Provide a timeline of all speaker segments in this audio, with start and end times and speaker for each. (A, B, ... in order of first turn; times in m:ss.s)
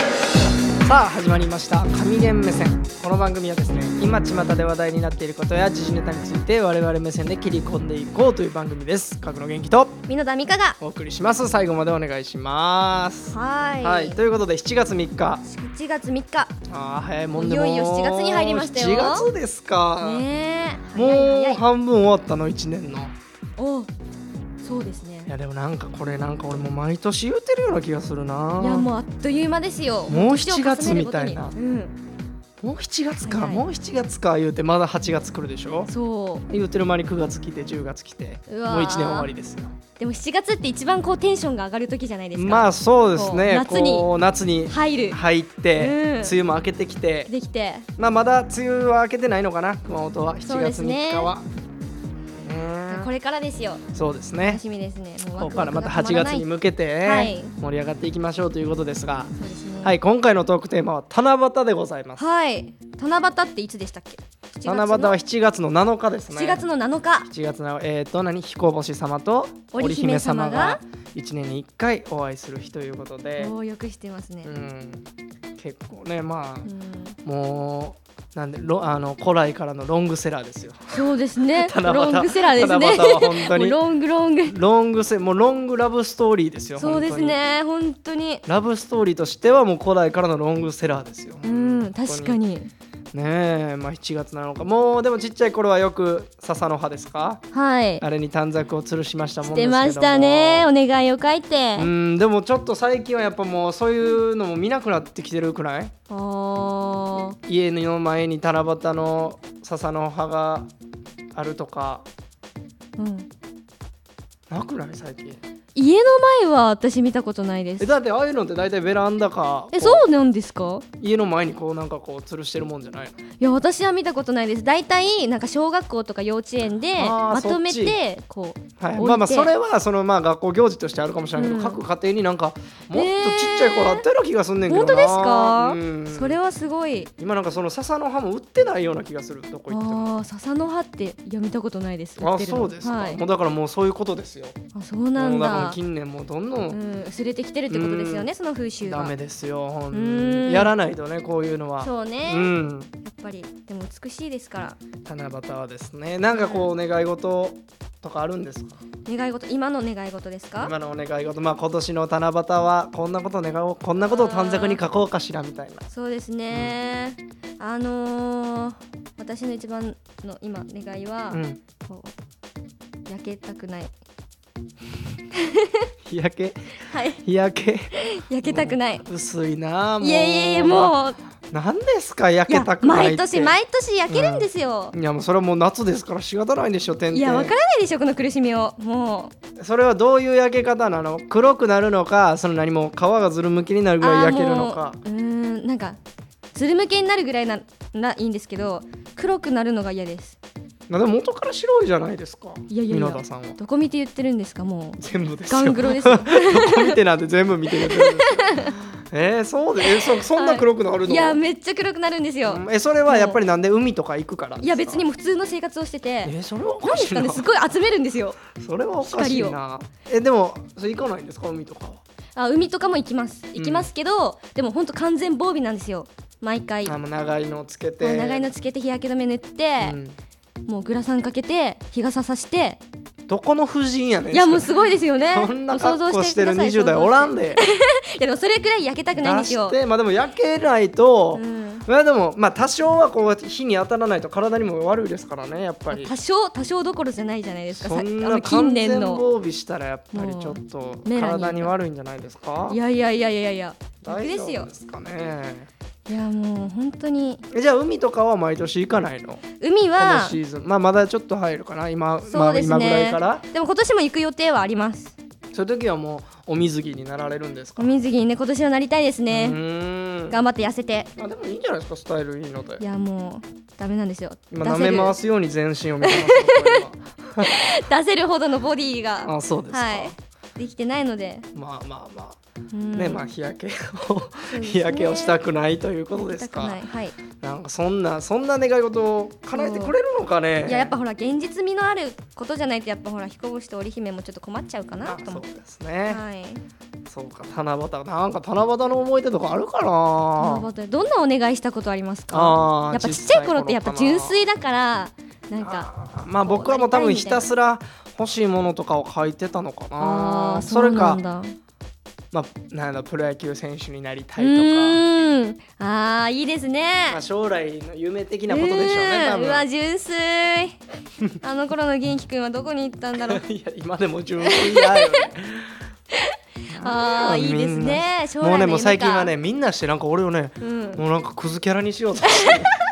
0:00.8-0:10.0 A
0:10.1-0:10.8 B
0:10.8-0:15.4 A
0:13.3-0:14.2 B
0:15.4-0:16.6 B
0:16.7-0:20.2 A
0:17.3-0:19.3 B
0:20.0-0:21.6 B
0:20.9-0:23.1 A
0:23.6-0:23.9 B
0:24.6-0:25.3 B
0:25.3-0:28.9 A
0:28.6-0:32.0 B
0:30.1-0:31.5 A
0:32.6-0:35.9 A
0:33.2-0:33.6 B
0:35.9-0:36.5 B
0:36.5-0:39.8 A
0:38.5-0:39.3 B
0:40.0-0:44.1 B
0:42.3-0:47.3 A
0:44.7-0:45.2 B
0:45.8-0:46.4 B
0:47.3-0:47.9 B
0:48.0-0:51.4 A
0:50.4-0:51.3 B
0:52.4-0:53.1 A
0:52.9-0:53.8 B
0:53.9-0:54.6 A
0:54.4-0:56.4 B
0:55.4-1:02.2 A
0:57.0-0:57.5 B
0:59.3-1:00.0 B
1:02.2-1:05.2 B
1:04.6-1:06.6 A
1:06.3-1:07.3 B
1:07.3-1:13.5 A
1:09.7-1:10.8 B
1:13.4-1:14.5 B
1:14.4-1:16.7 A
1:16.6-1:17.2 B
1:17.2-1:21.1 A
1:20.9-1:24.5 B
1:21.6-1:23.8 A
1:24.4-1:27.4 A
1:26.8-1:28.4 B
1:28.4-1:32.4 A
1:31.4-1:32.7 B
1:33.1-1:37.4 A
1:37.5-1:38.0 B
1:38.0-1:40.7 A
1:39.4-1:41.9 B
1:41.8-1:45.9 A
1:46.1-1:47.4 B
1:47.4-1:50.7 A
1:51.3-1:52.1 A
1:53.0-1:53.3 B
1:54.5-1:55.4 A
1:55.7-1:57.9 B
1:57.8-2:00.0 A
1:59.7-2:00.8 B
2:01.0-2:03.2 A
2:03.4-2:09.5 B
2:07.0-2:08.0 A
2:08.8-2:16.4 A
2:11.4-2:11.8 B
2:12.9-2:14.0 B
2:14.7-2:17.1 B
2:17.2-2:20.1 A
2:19.7-2:23.2 B
2:22.2-2:24.6 A
2:24.7-2:25.8 B
2:25.2-2:26.8 A
2:26.7-2:29.1 B
2:27.7-2:28.3 A
2:28.8-2:32.9 A
2:29.9-2:30.7 B
2:31.8-2:34.8 B
2:35.0-2:38.8 A
2:36.3-2:36.7 B
2:39.0-2:40.7 B
2:40.6-2:45.8 A
2:44.0-2:44.8 B
2:45.9-2:52.1 B
2:46.5-2:46.8 A
2:51.3-2:51.6 A
2:53.1-2:53.9 B
2:55.3-2:55.8 B
2:56.0-2:56.7 A
2:56.9-2:57.2 B
2:57.2-3:01.0 A
2:58.0-2:59.0 B
3:00.0-3:01.2 B
3:01.5-3:03.6 A
3:02.5-3:05.0 B
3:04.1-3:07.5 A
3:07.1-3:09.3 B
3:09.6-3:15.0 A
3:14.0-3:16.0 B
3:16.5-3:20.4 B
3:20.9-3:23.6 A
3:22.7-3:27.0 B
3:25.0-3:31.4 A
3:27.7-3:28.7 B
3:29.8-3:33.4 B
3:32.4-3:35.0 A
3:34.6-3:38.4 B
3:36.2-3:37.5 A
3:38.4-3:42.0 A
3:39.0-3:39.6 B
3:42.4-3:47.0 B
3:43.5-3:43.9 A
3:46.8-3:48.5 A
3:48.0-3:50.0 B
3:49.8-3:50.2 A
3:50.6-3:52.8 B
3:53.3-3:57.6 A
3:54.3-3:59.8 B
3:59.1-4:06.1 A
4:01.3-4:01.8 B
4:05.9-4:09.2 B
4:07.7-4:12.8 A
4:10.1-4:11.7 B
4:12.7-4:14.7 B
4:14.0-4:15.7 A
4:16.1-4:17.4 B
4:17.5-4:19.4 A
4:19.6-4:20.4 B
4:20.0-4:23.4 A
4:22.2-4:25.2 B
4:25.5-4:28.0 A
4:27.8-4:29.6 B
4:29.3-4:30.4 A
4:30.3-4:31.1 B
4:31.2-4:32.8 A
4:32.8-4:35.2 B
4:34.5-4:37.6 A
4:36.0-4:36.8 B
4:37.4-4:41.4 B
4:39.2-4:40.1 A
4:41.5-4:42.4 A
4:42.7-4:43.3 B
4:42.9-4:46.8 A
4:44.5-4:45.4 B
4:46.2-4:47.2 B
4:47.4-4:51.0 A
4:49.5-4:49.9 B
4:50.6-4:55.4 B
4:55.0-4:56.2 A
4:56.0-4:56.6 B
4:57.1-5:00.7 A
5:00.4-5:05.9 B
5:02.3-5:04.4 A
5:05.6-5:11.2 A
5:06.4-5:07.5 B
5:10.0-5:11.5 B
5:12.3-5:15.0 A
5:14.4-5:17.2 B
5:17.1-5:19.6 A
5:18.5-5:20.8 B
5:21.4-5:23.4 B
5:23.2-5:25.8 A
5:24.4-5:25.3 B
5:26.7-5:32.7 A
5:26.7-5:29.3 B
5:30.6-5:31.0 B
5:32.4-5:32.7 B